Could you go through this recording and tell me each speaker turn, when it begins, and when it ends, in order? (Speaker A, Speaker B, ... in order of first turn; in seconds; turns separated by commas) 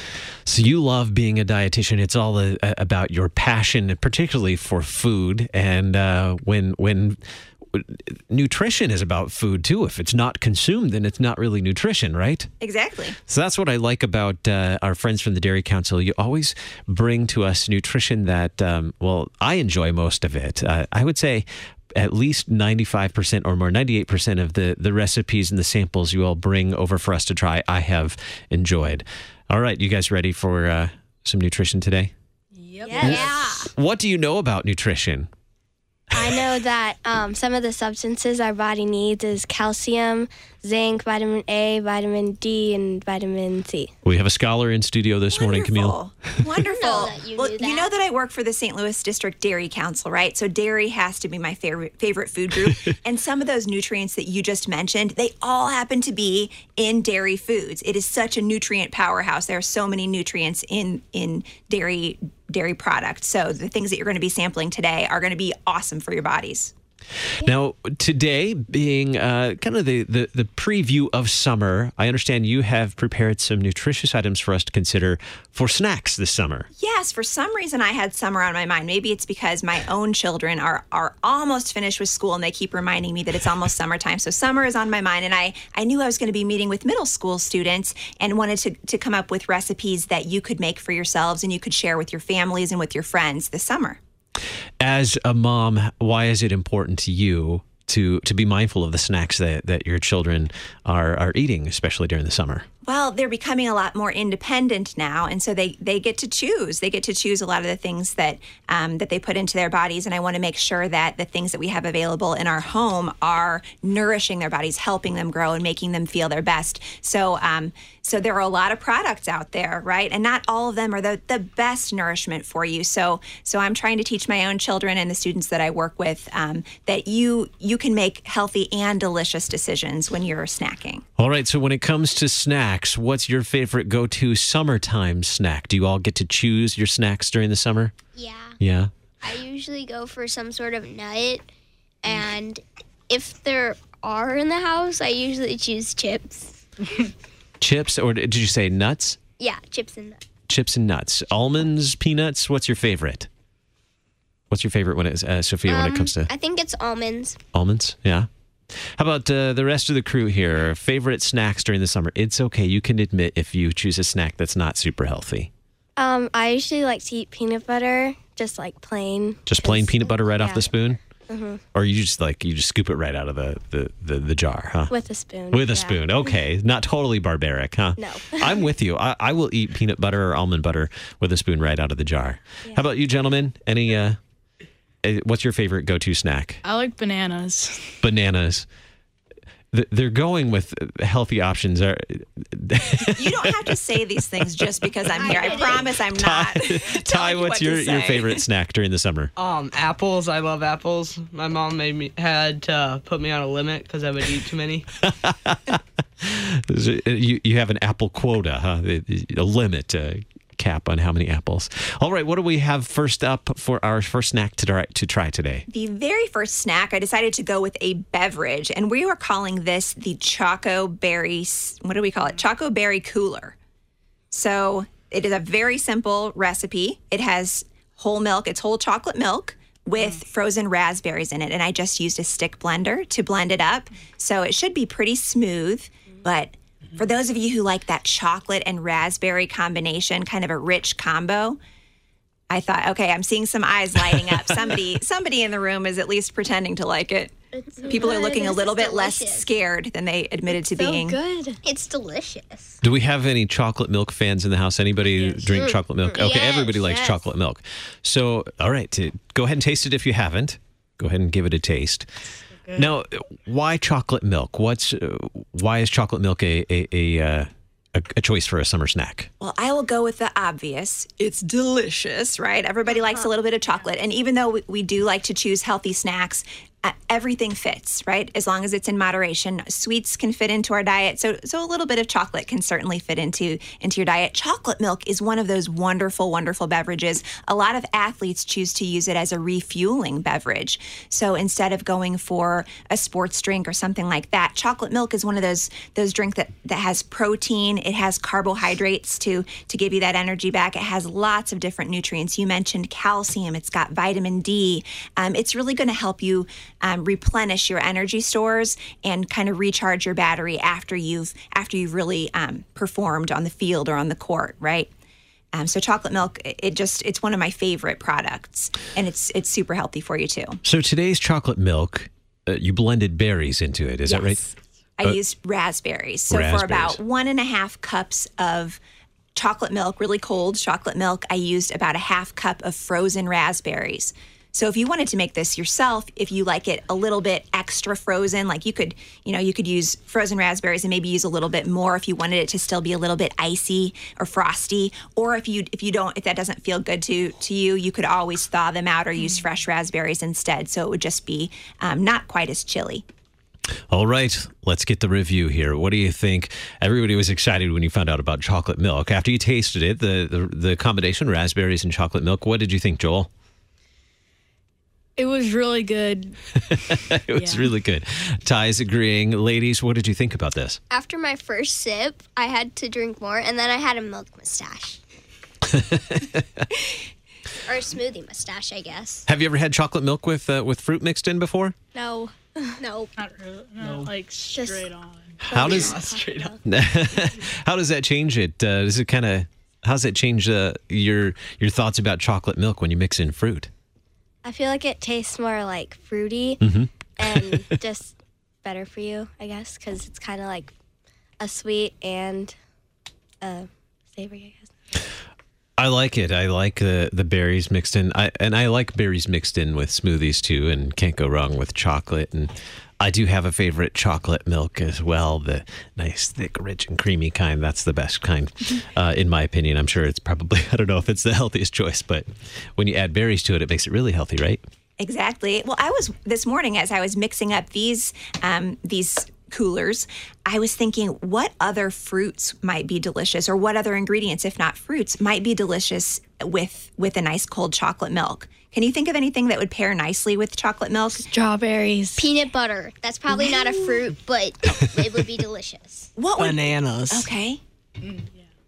Speaker A: 0.5-12.5, Speaker B: 12.6-13.2, Speaker A: 13.3-32.1, Speaker C: 32.5-33.2, Speaker D: 32.9-33.2, Speaker E: 32.9-33.7, Speaker A: 33.0-35.3, Speaker D: 36.1-43.9, Speaker A: 36.2-36.4, Speaker A: 44.0-46.0, Speaker B: 45.3-66.7, Speaker E: 46.7-47.9, Speaker A: 67.4-76.7, Speaker B: 76.8-94.0, Speaker A: 94.8-102.7, Speaker B: 102.8-131.1, Speaker A: 131.2-137.9, Speaker E: 138.2-138.6, Speaker A: 138.6-138.9, Speaker E: 139.2-141.4, Speaker E: 142.0-146.6, Speaker A: 147.6-149.2, Speaker E: 149.4-150.2, Speaker A: 150.5-153.3, Speaker A: 154.5-156.3, Speaker E: 155.7-157.4, Speaker A: 157.5-165.5, Speaker D: 166.0-170.7, Speaker A: 169.5-171.0, Speaker D: 171.3-171.6, Speaker A: 171.7-174.9, Speaker D: 174.9-176.3, Speaker A: 175.5-184.2, Speaker D: 178.0-178.6, Speaker A: 185.0-186.6, Speaker C: 186.6-188.0, Speaker A: 188.0-188.7, Speaker A: 189.7-193.6, Speaker B: 193.2-198.4, Speaker E: 195.2-195.9, Speaker A: 195.9-199.3, Speaker F: 199.4-204.9, Speaker A: 205.0-215.7, Speaker B: 215.7-223.6, Speaker B: 224.3-241.6, Speaker B: 242.5-251.2, Speaker E: 247.5-249.5, Speaker D: 247.8-248.4, Speaker D: 250.5-251.6, Speaker E: 251.6-252.8, Speaker A: 252.8-262.1, Speaker E: 255.5-257.1, Speaker A: 262.8-269.3, Speaker B: 269.4-314.9, Speaker B: 315.5-320.6, Speaker A: 320.6-324.4, Speaker B: 324.1-328.8, Speaker A: 326.3-327.0, Speaker B: 329.4-353.0, Speaker A: 353.9-363.3, Speaker C: 365.2-366.4, Speaker A: 366.8-370.8, Speaker C: 367.3-367.7, Speaker E: 370.9-375.0, Speaker A: 375.7-376.7, Speaker E: 377.6-379.3, Speaker A: 379.3-381.8, Speaker D: 381.9-382.8, Speaker E: 382.8-383.1, Speaker C: 383.2-385.4, Speaker F: 383.8-384.1, Speaker D: 384.5-384.9, Speaker A: 385.4-386.0, Speaker D: 385.5-386.5, Speaker F: 385.5-386.6, Speaker A: 386.6-393.7, Speaker D: 394.4-396.6, Speaker A: 396.6-397.6, Speaker D: 397.2-400.7, Speaker D: 401.4-402.6, Speaker D: 403.4-405.1, Speaker A: 405.8-424.6, Speaker B: 425.0-441.2, Speaker D: 441.2-442.3, Speaker E: 442.2-446.1, Speaker B: 443.4-443.8, Speaker B: 446.2-447.6, Speaker F: 446.4-447.3, Speaker C: 448.0-448.4